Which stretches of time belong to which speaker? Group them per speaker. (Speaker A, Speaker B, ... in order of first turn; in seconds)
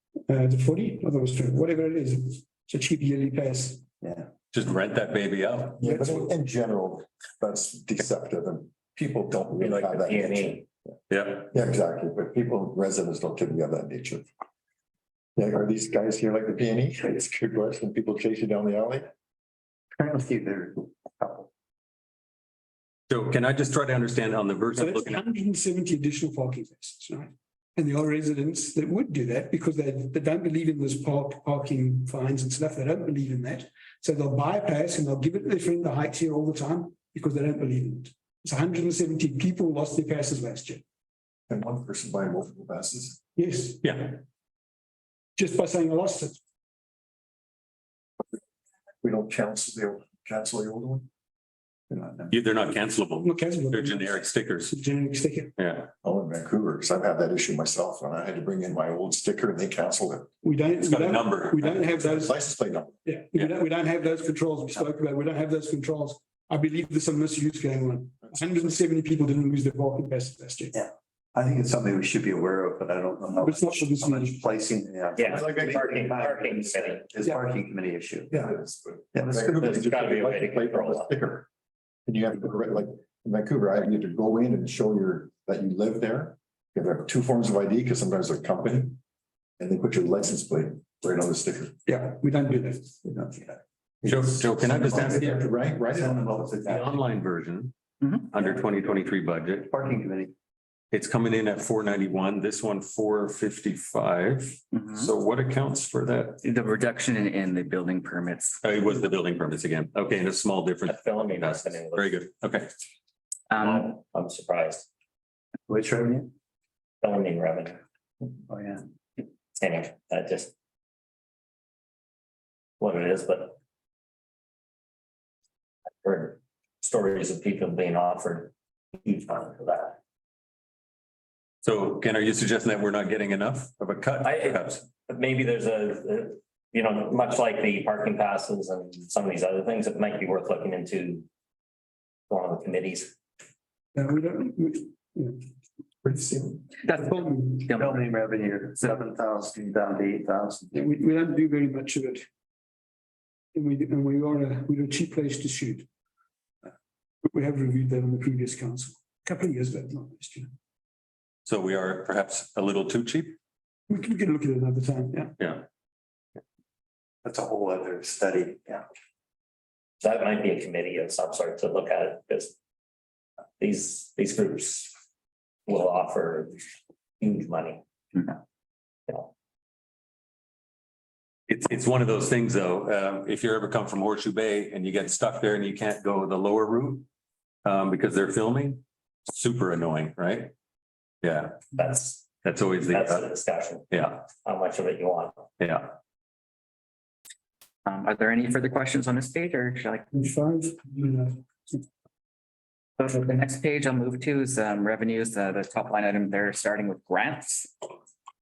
Speaker A: 0.3-3.9, 5.8-6.3, 24.8-40.8, 43.4-43.8, 45.4-46.4, 53.2-55.5, 60.4-62.3, 63.0-70.7, 73.4-74.4, 91.9-92.9, 143.9-145.4, 147.0-147.6, 150.7-152.2, 153.5-155.9, 157.2-160.5, 163.9-165.4, 200.1-201.8
Speaker B: 4.0-4.3, 19.9-21.5, 70.7-78.4, 79.1-79.9, 93.1-94.9, 95.9-97.0, 98.4-98.8, 99.6-100.3, 115.7-116.3, 118.5-118.8, 147.7-150.9, 167.2-168.8
Speaker C: 4.5-5.8, 11.1-11.5, 23.1-25.2, 43.8-44.2, 52.3-54.7, 55.6-55.9, 60.8-61.8, 94.0-95.3, 96.7-97.8, 98.3-99.7, 100.9-106.4, 108.6-112.7, 131.6-134.8, 161.5-163.4, 165.4-165.7, 181.5-187.1, 187.7-190.5, 191.2-191.6, 192.3-193.3, 193.9-194.2, 195.6-195.9
Speaker D: 5.8-10.7, 11.4-14.3, 15.4-19.1, 41.5-43.2, 49.0-51.1, 56.0-60.3, 61.7-63.0, 75.2-75.9, 78.3-81.5, 82.1-89.0, 89.6-91.8, 94.7-96.4, 146.0-146.7
Speaker E: 9.6-10.6, 75.1-77.1, 79.5-81.1, 110.9-112.2, 113.6-114.9, 117.0-117.8, 119.6-120.5, 122.8-123.6, 126.0-128.5, 129.0-130.0, 134.2-141.2, 142.3-143.1, 170.0-172.5, 173.6-174.9, 175.7-176.6, 177.2-177.8, 191.8-192.3, 192.8-193.8, 194.4-195.4
Speaker F: 98.0-98.3, 104.7-105.1, 106.4-108.6, 113.5-113.9, 146.8-148.1, 197.9-200.1, 203.0-207.7